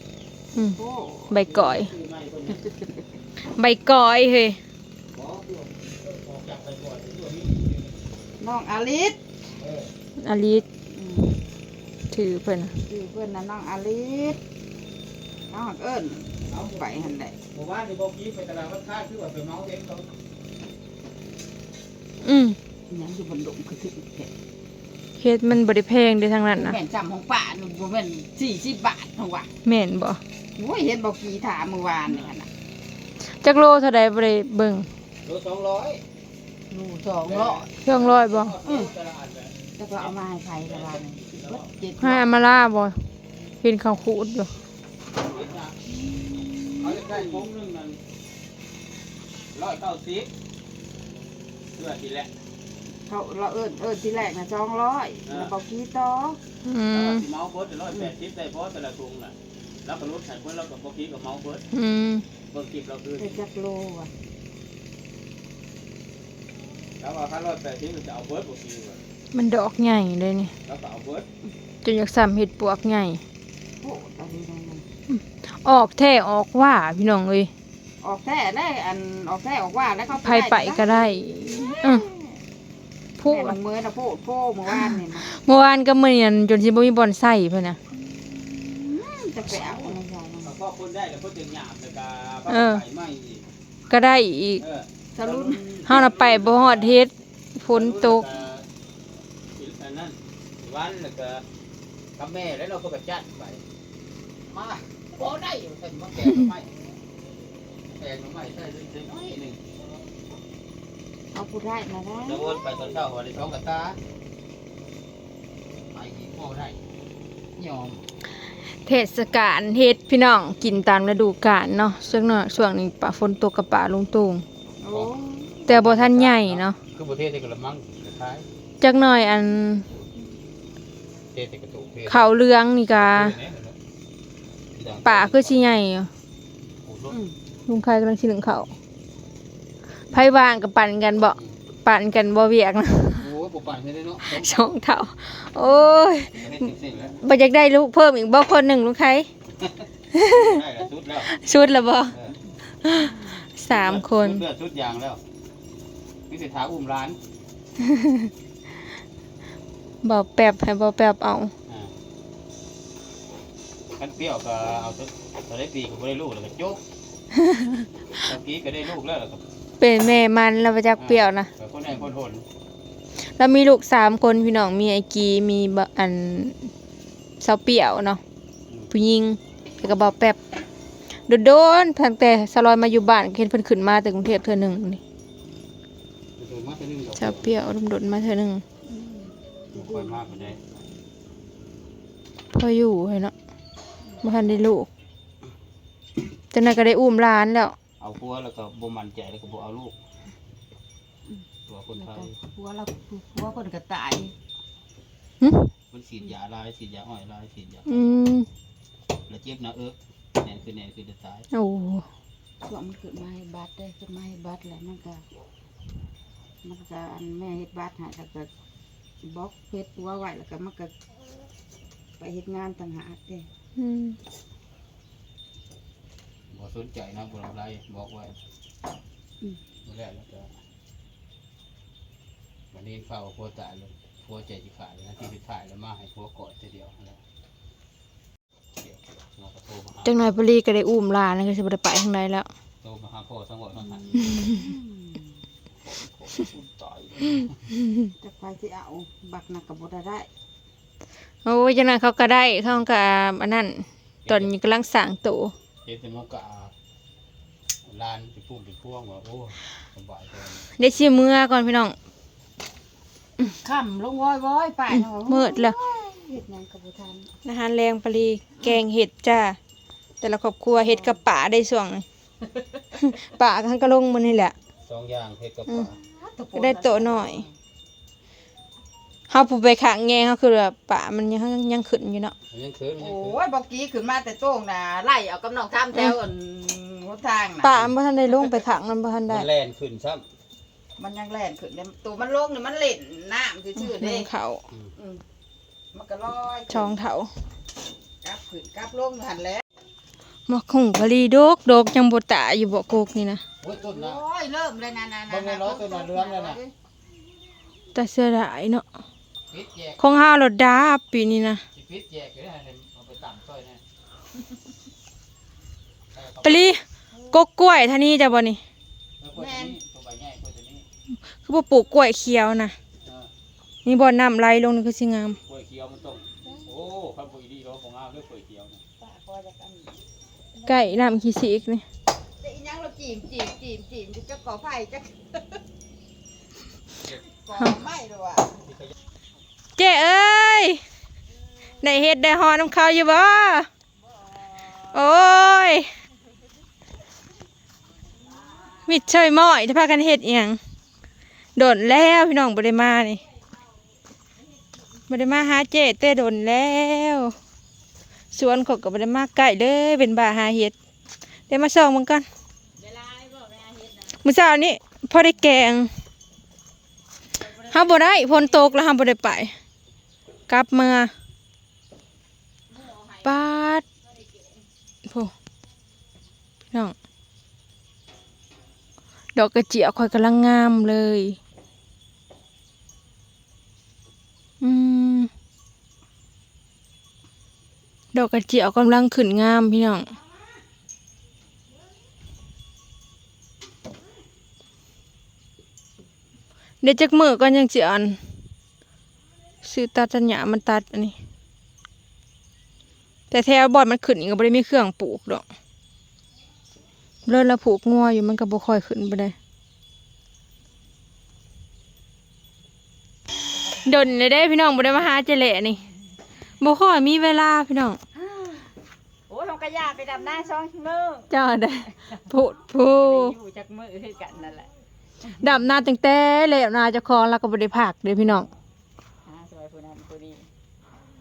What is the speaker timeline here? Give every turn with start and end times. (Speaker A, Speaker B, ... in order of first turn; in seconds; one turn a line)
Speaker A: 0.7-1.4
Speaker B: 1.3-1.9
Speaker C: 1.4-2.6
Speaker B: 3.4-4.6
Speaker C: 5.1-8.0
Speaker A: 8.4-9.2
Speaker C: 9.6-9.9
Speaker B: 10.2-10.7
Speaker A: 10.9-11.4
Speaker B: 12.1-12.8
Speaker A: 12.8-14.4
Speaker A: 15.5-17.4
Speaker C: 16.5-20.1
Speaker B: 22.2-22.6
Speaker A: 22.9-24.3
Speaker B: 25.2-26.8
Speaker A: 26.5-29.5
Speaker B: 29.6-30.2
Speaker A: 30.6-32.5
Speaker B: 33.3-34.9
Speaker C: 35.2-36.0
Speaker A: 36.7-37.7
Speaker C: 37.2-41.7
Speaker B: 37.8-38.6
Speaker A: 38.6-38.9
Speaker A: 39.8-42.3
Speaker B: 42.0-43.0
Speaker B: 43.6-44.5
Speaker C: 45.2-45.8
Speaker C: 46.8-48.0
Speaker A: 46.8-47.3
Speaker C: 49.5-50.3
Speaker C: 51.8-52.3
Speaker A: 53.1-56.4
Speaker C: 55.3-55.5
Speaker B: 56.6-57.2
Speaker C: 56.9-61.6
Speaker B: 61.7-62.2
Speaker C: 62.5-63.4
Speaker A: 63.2-64.1
Speaker C: 67.0-69.0
Speaker B: 69.3-70.5
Speaker C: 70.7-71.3
Speaker B: 71.8-73.2
Speaker A: 73.8-74.8
Speaker B: 75.1-77.5
Speaker A: 78.0-82.4
Speaker B: 80.2-82.1
Speaker B: 83.2-83.6
Speaker A: 83.2-85.3
Speaker B: 84.7-87.8
Speaker A: 88.0-90.5
Speaker C: 89.6-93.5
Speaker B: 92.5-92.8
Speaker B: 93.9-94.6
Speaker C: 94.6-97.0
Speaker A: 95.1-95.8
Speaker B: 95.9-98.3
Speaker C: 97.7-98.7
Speaker C: 99.6-101.4
Speaker C: 102.2-103.6
Speaker C: 104.5-106.7
Speaker C: 108.0-109.6
Speaker A: 111.3-112.6
Speaker C: 112.2-114.0
Speaker C: 115.9-116.8
Speaker C: 117.6-117.9
Speaker B: 118.8-124.5
Speaker A: 124.8-125.7
Speaker C: 125.7-128.5
Speaker B: 125.7-126.8
Speaker B: 128.8-129.9
Speaker C: 131.3-132.3
Speaker B: 132.1-133.3
Speaker C: 132.9-133.8
Speaker C: 134.8-135.8
Speaker B: 135.0-136.1
Speaker C: 136.8-137.2
Speaker B: 137.7-138.7
Speaker B: 140.1-143.3
Speaker C: 143.2-144.7
Speaker B: 144.2-146.6
Speaker C: 146.4-147.2
Speaker B: 147.2-149.3
Speaker B: 150.1-150.6
Speaker C: 150.3-151.3
Speaker B: 151.2-152.2
Speaker B: 152.8-154.4
Speaker A: 152.9-153.4
Speaker C: 153.7-155.2
Speaker C: 156.3-157.2
Speaker B: 157.8-158.3
Speaker B: 160.0-161.5
Speaker C: 164.0-166.8
Speaker B: 167.4-167.8
Speaker C: 168.1-169.4
Speaker B: 169.8-171.5
Speaker C: 171.0-172.4
Speaker B: 173.2-176.7
Speaker B: 177.4-178.2
Speaker B: 178.9-180.4
Speaker B: 181.3-185.0
Speaker C: 186.4-187.5
Speaker B: 187.2-188.6
Speaker A: 188.9-190.6
Speaker C: 189.7-190.6
Speaker B: 192.5-193.3
Speaker B: 194.2-194.9
Speaker B: 196.5-197.8
Speaker C: 198.0-199.9
Speaker C: 201.7-202.3
Speaker A: 202.0-204.3
Speaker B: 205.4-205.7
Speaker C: 205.9-208.0
Speaker B: 207.9-208.5
Speaker C: 209.3-211.5
Speaker B: 211.5-212.1
Speaker A: 212.6-215.2
Speaker A: 216.6-218.5
Speaker A: 219.2-220.9
Speaker A: 222.2-223.5
Speaker B: 223.8-224.2
Speaker C: 226.5-228.4
Speaker C: 229.8-230.5
Speaker C: 232.7-237.2
Speaker C: 238.8-240.2
Speaker B: 240.0-242.5
Speaker C: 242.8-244.4
Speaker A: 243.8-245.3
Speaker B: 244.3-244.6
Speaker C: 245.8-247.7
Speaker A: 248.2-250.3
Speaker B: 251.4-255.5
Speaker C: 254.3-254.5
Speaker C: 255.8-256.7
Speaker C: 257.9-260.6
Speaker B: 260.8-262.0
Speaker A: 263.4-267.3
Speaker B: 265.3-265.8
Speaker B: 267.4-269.6
Speaker B: 270.2-272.1
Speaker A: 270.8-271.2
Speaker B: 272.9-274.6
Speaker C: 274.9-275.9
Speaker A: 275.9-277.5
Speaker B: 276.6-277.4
Speaker B: 279.3-282.3
Speaker C: 282.5-283.4
Speaker A: 283.0-287.7
Speaker B: 287.6-289.5
Speaker C: 289.3-290.2
Speaker A: 291.0-294.3
Speaker B: 293.8-294.6
Speaker A: 295.0-295.2
Speaker A: 295.9-296.9
Speaker B: 296.7-297.3
Speaker A: 298.2-299.6
Speaker B: 300.5-303.4
Speaker C: 303.6-304.2
Speaker A: 303.9-306.7
Speaker C: 305.3-306.6
Speaker B: 307.9-308.9
Speaker C: 309.5-310.1
Speaker B: 310.0-311.6
Speaker C: 311.7-313.8
Speaker C: 316.1-316.8
Speaker B: 316.4-318.6
Speaker C: 319.2-320.9
Speaker A: 319.4-319.8
Speaker B: 321.4-322.8
Speaker B: 323.9-325.4
Speaker C: 325.5-328.8
Speaker A: 326.4-326.7
Speaker A: 329.0-330.0
Speaker A: 330.6-330.9
Speaker B: 330.7-331.9
Speaker A: 332.4-335.6
Speaker A: 337.3-338.6
Speaker B: 339.8-340.8
Speaker B: 341.8-343.7
Speaker B: 344.8-345.9
Speaker B: 348.8-350.6
Speaker B: 351.6-353.2
Speaker B: 355.1-357.4
Speaker B: 358.3-360.7
Speaker B: 361.5-362.3
Speaker A: 362.8-364.2
Speaker B: 364.2-365.9
Speaker A: 367.4-368.8
Speaker B: 367.7-369.5
Speaker B: 370.5-371.1
Speaker A: 372.7-373.3
Speaker B: 373.2-373.9
Speaker B: 375.1-375.3
Speaker B: 379.4-381.4
Speaker B: 384.6-385.3
Speaker B: 388.1-390.1
Speaker B: 396.8-398.2
Speaker B: 399.6-401.2
Speaker B: 403.3-405.4
Speaker B: 407.2-409.4
Speaker B: 413.8-415.8
Speaker B: 416.6-418.0
Speaker A: 418.1-418.7
Speaker A: 419.3-421.3
Speaker B: 421.3-423.4
Speaker A: 422.9-424.7
Speaker B: 425.4-428.5
Speaker A: 429.2-430.5